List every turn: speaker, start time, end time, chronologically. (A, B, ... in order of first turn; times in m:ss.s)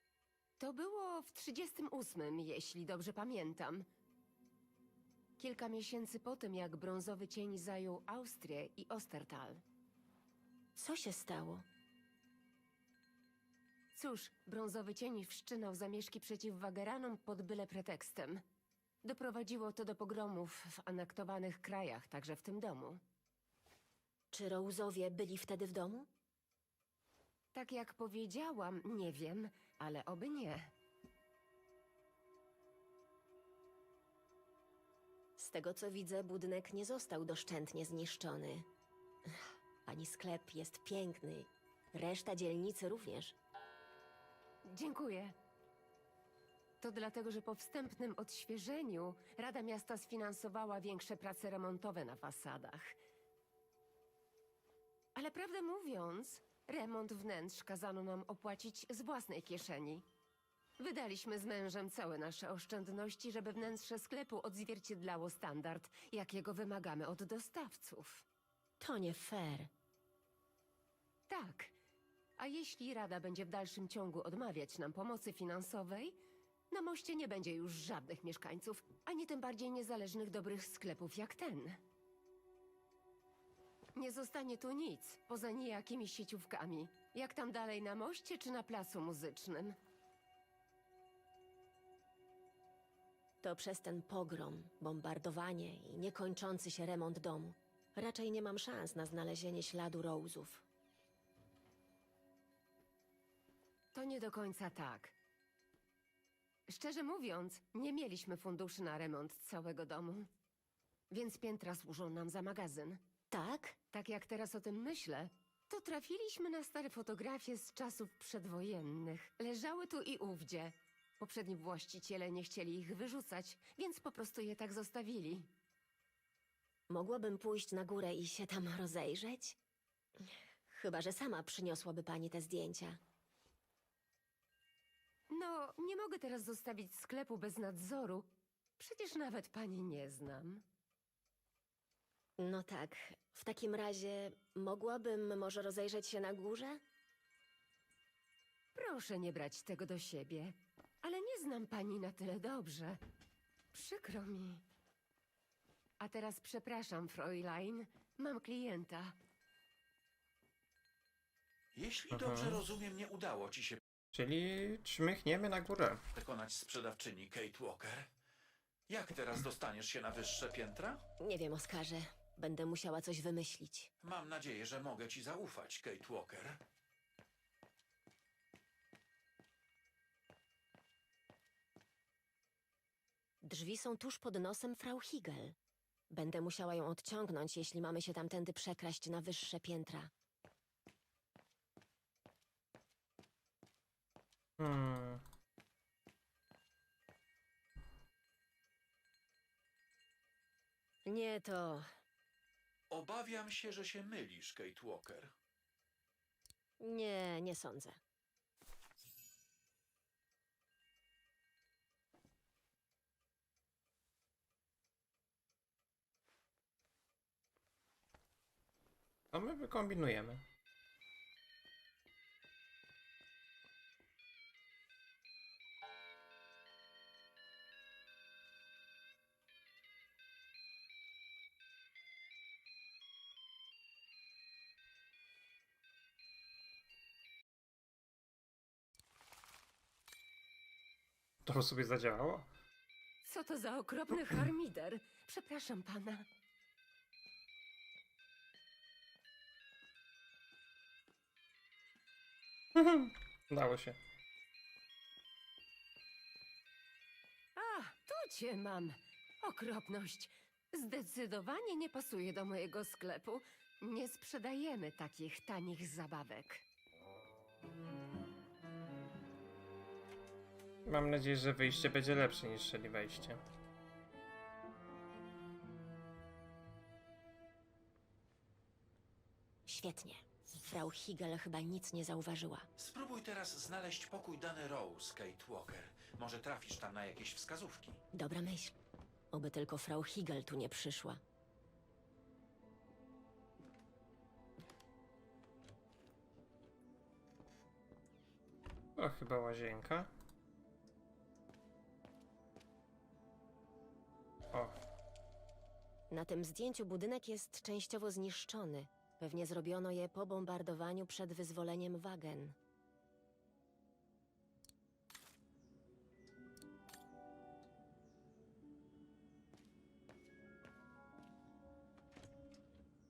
0:00.6-0:03.8 A
0:05.4-0:09.6 A
0:10.8-0:11.6 B
0:14.0-0:18.4 A
0:19.0-0:23.0 A
0:24.3-0:26.1 B
0:27.5-0:30.7 A
0:35.4-0:38.7 B
0:39.9-0:43.4 B
0:44.7-0:45.4 A
0:46.8-0:53.0 A
0:55.2-1:00.0 A
1:00.8-1:08.2 A
1:08.8-1:09.7 B
1:11.3-1:11.7 A
1:12.4-1:16.2 A
1:16.7-1:21.8 A
1:24.0-1:29.8 A
1:33.4-1:40.6 B
1:43.9-1:45.2 A
1:46.7-1:50.3 A
1:51.1-1:53.0 A
1:53.3-1:53.8 B
1:53.9-2:05.5 A
2:06.9-2:09.6 B
2:10.2-2:13.0 B
2:15.3-2:20.6 A
2:22.4-2:26.8 B
2:28.8-2:33.0 A
2:33.7-2:34.6 A
2:36.0-2:39.2 A
2:41.8-2:43.8 C
2:42.1-2:42.6 D
2:44.1-2:46.0 D
2:46.2-2:48.1 C
2:48.9-2:51.0 C
2:51.2-2:53.9 B
2:54.0-2:56.6 C
3:03.4-3:05.6 B
3:06.1-3:10.1 B
3:14.6-3:15.2 D
3:21.1-3:21.9 B
3:22.9-3:25.3 C
3:26.8-3:28.0 B
3:39.3-3:40.4 D
4:01.4-4:02.5 D
4:03.2-4:06.3 A
4:12.7-4:14.0 D
4:17.6-4:26.6 A
4:30.9-4:33.4 D
4:39.7-4:42.7 B
4:42.8-4:48.0 C
4:48.1-4:48.8 B
4:49.3-4:51.2 B
4:59.0-5:00.1 D
5:06.1-5:12.6 B